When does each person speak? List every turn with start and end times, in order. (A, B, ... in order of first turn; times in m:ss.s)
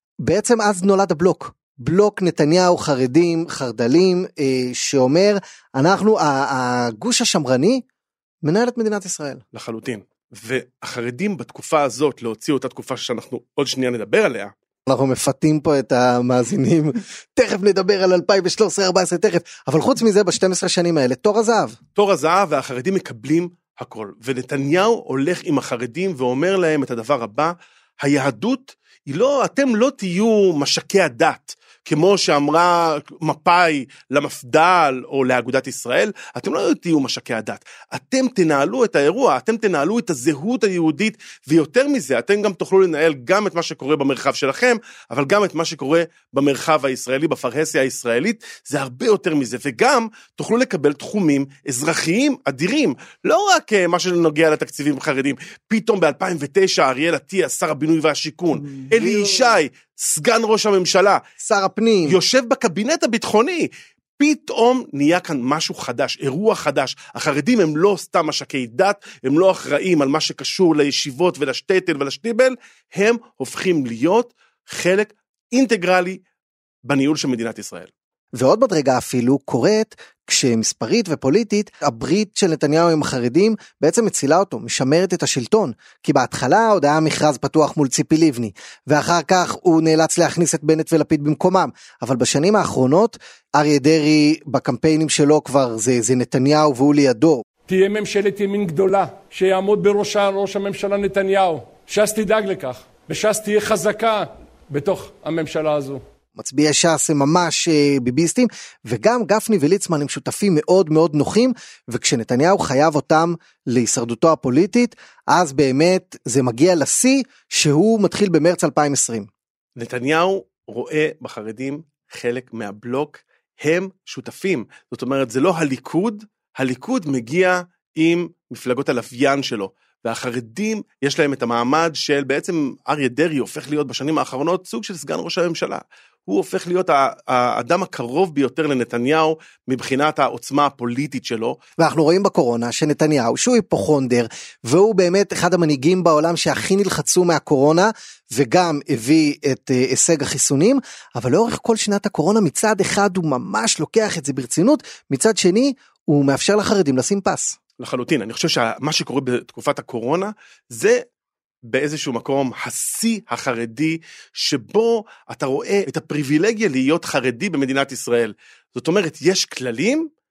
0:00.2-0:07.8 A
0:08.4-0:09.4 A
0:09.5-0:14.5 B
0:14.8-0:21.8 A
0:22.0-1:01.2 B
0:58.6-0:59.6 A
1:01.4-1:02.2 A
1:02.0-1:16.2 B
1:16.8-1:17.9 B
1:18.3-1:37.4 A
1:37.7-1:46.0 C
1:46.4-1:59.3 A
1:59.8-2:21.6 B
2:21.8-2:37.6 A
2:37.8-2:41.0 B
2:41.6-2:50.1 B